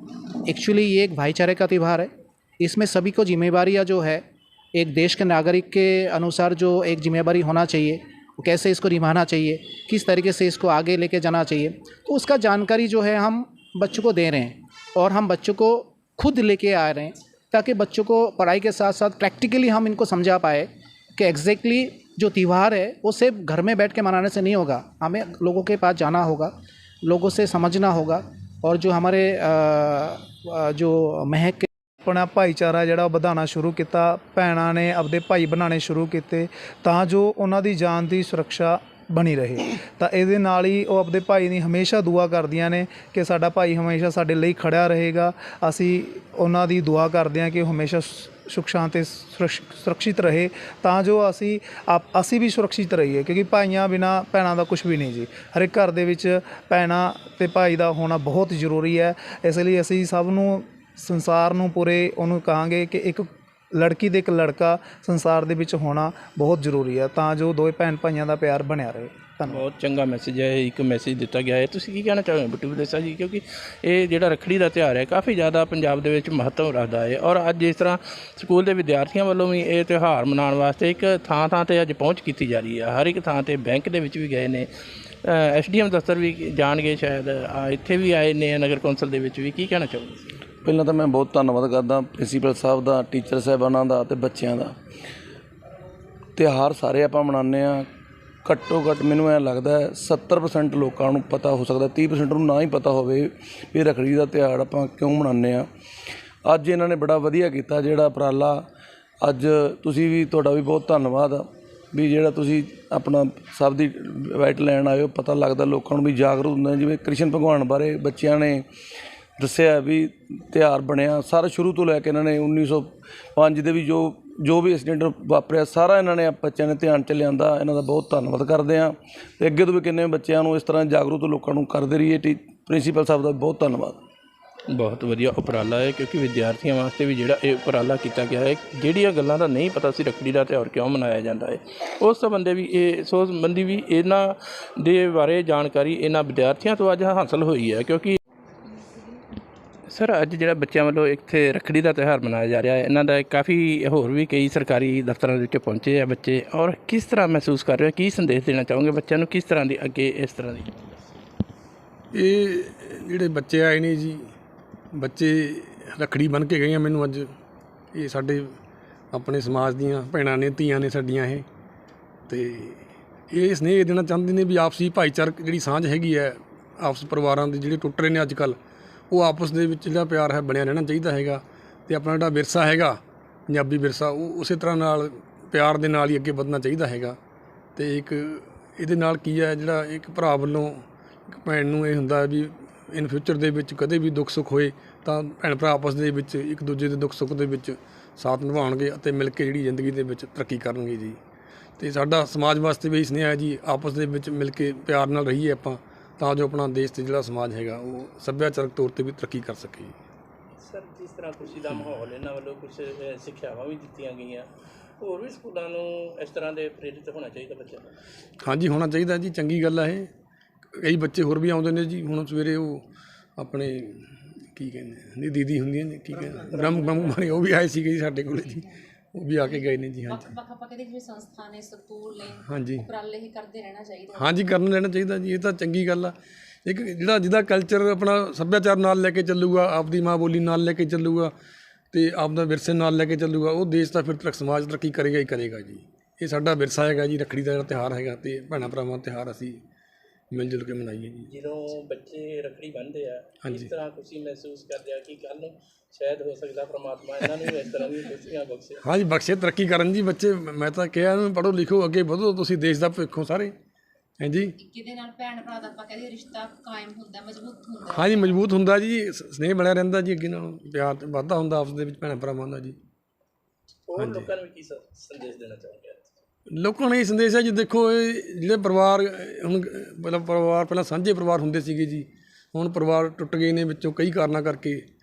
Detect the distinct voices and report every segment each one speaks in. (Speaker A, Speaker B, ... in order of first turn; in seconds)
Speaker A: 0.5-26.5, 27.0-31.7
Speaker B: 32.0-69.7
Speaker C: 69.4-84.7, 85.2-90.4, 134.7-148.2, 149.9-161.1, 210.6-214.5, 215.0-217.9, 226.2-227.2, 251.3-258.8, 273.9-276.1
Speaker D: 90.6-94.7, 96.3-97.9, 98.4-105.7, 106.5-108.6, 109.2-118.7, 119.4-134.0
Speaker E: 162.1-164.3, 164.9-167.3, 167.9-168.5, 169.1-171.4, 172.3-178.6, 179.1-187.2, 187.8-201.2, 201.8-210.0, 218.4-220.1, 220.8-222.8, 223.4-230.3, 232.4-232.9, 234.1-236.1, 236.6-241.3, 241.9-249.6, 250.3-251.3, 253.4-253.7, 258.8-263.5, 264.2-264.6, 267.8-272.8, 273.9-274.3, 276.5-284.8
Speaker F: 229.4-234.4, 264.6-268.4